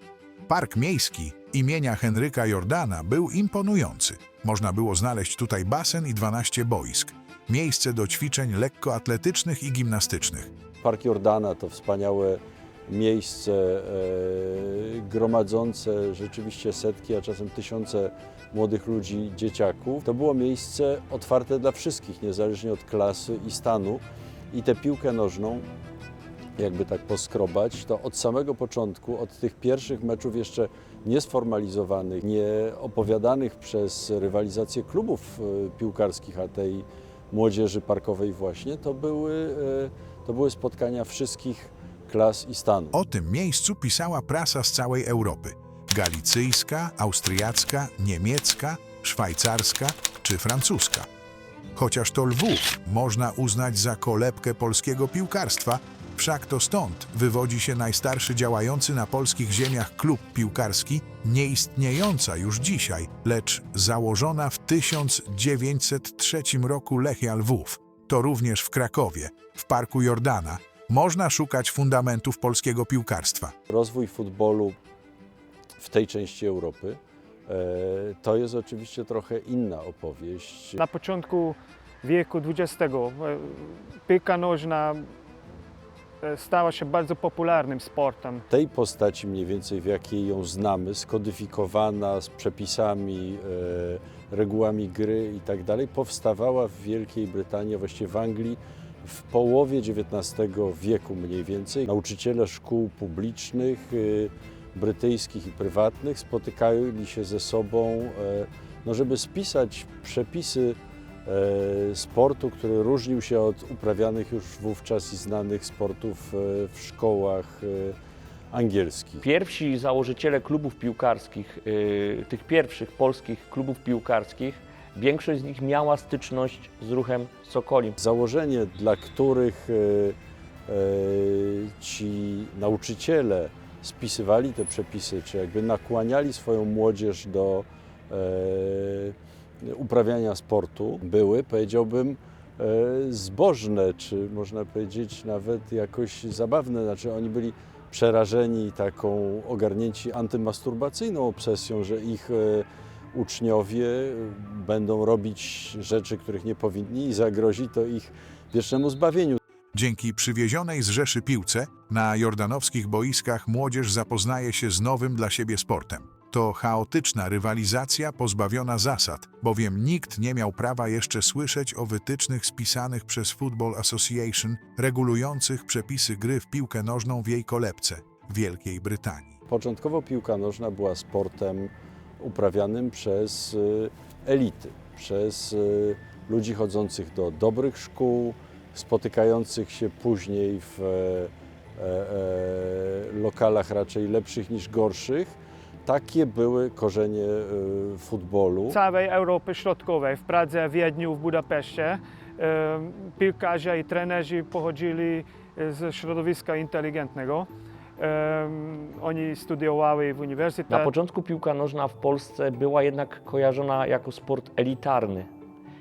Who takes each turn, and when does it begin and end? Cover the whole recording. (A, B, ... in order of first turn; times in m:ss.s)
0:00.5-0:10.5 A
0:10.8-0:25.6 B
0:26.6-0:42.9 B
0:42.9-0:51.1 A
0:51.8-1:13.5 A
1:13.7-1:14.8 B
1:15.8-1:20.8 B
1:20.8-1:25.1 C
1:26.2-1:28.4 C
1:28.5-1:57.9 B
1:58.5-1:59.2 B
1:59.2-2:08.0 D
2:08.0-2:10.2 B
2:10.7-2:39.4 B
2:39.7-2:59.4 A
2:59.5-3:15.3 B
3:15.8-3:18.8 B
3:18.7-3:30.9 C
3:30.7-3:35.3 D